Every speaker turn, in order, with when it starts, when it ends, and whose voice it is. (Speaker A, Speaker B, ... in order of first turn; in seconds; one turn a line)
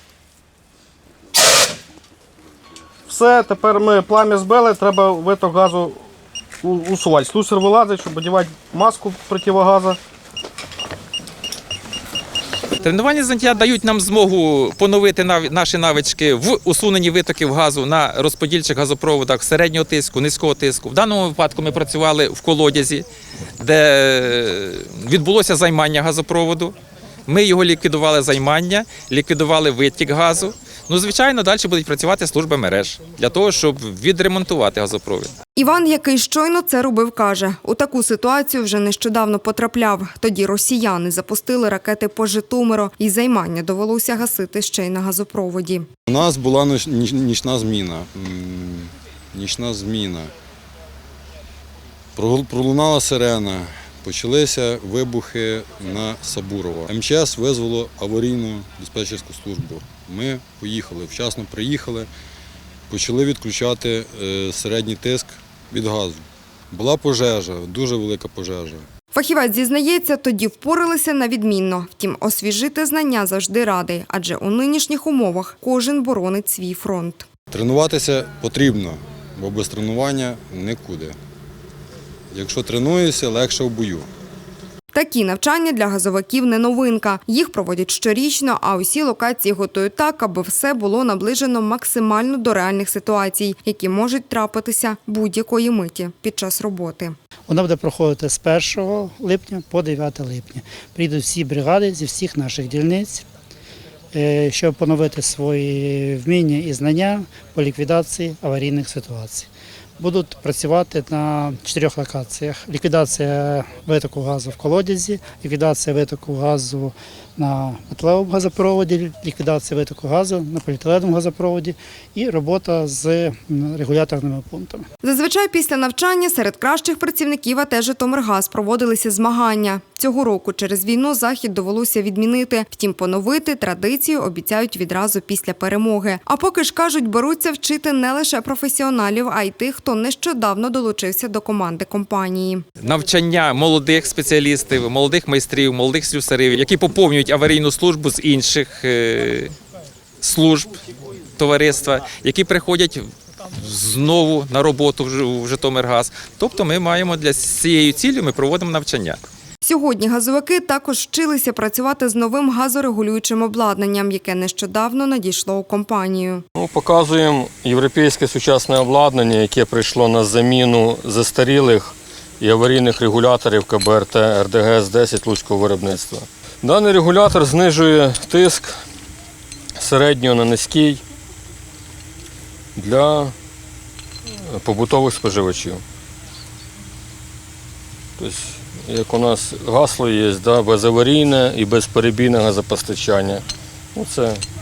Speaker A: 3.1-6.0
Speaker A: 6.6-10.0
Speaker B: 12.8-23.0
Speaker B: 23.6-26.8
Speaker B: 27.3-35.3
Speaker C: 35.5-45.9
Speaker D: 46.1-50.3
Speaker D: 52.1-62.1
Speaker D: 62.9-68.8
Speaker C: 69.1-77.2
Speaker D: 77.5-81.2
Speaker D: 82.3-84.1
Speaker C: 84.9-97.2
Speaker E: 97.5-103.2
Speaker E: 104.1-109.4
Speaker E: 110.0-116.9
Speaker E: 117.4-124.8
Speaker C: 125.0-142.7
Speaker B: 142.8-149.5
Speaker B: 150.2-150.8
Speaker B: 151.4-159.2
Speaker C: 159.6-166.4
Speaker F: 166.6-178.8
Speaker F: 179.8-181.0
Speaker F: 182.8-183.3
Speaker F: 184.5-185.8
Speaker F: 188.2-194.4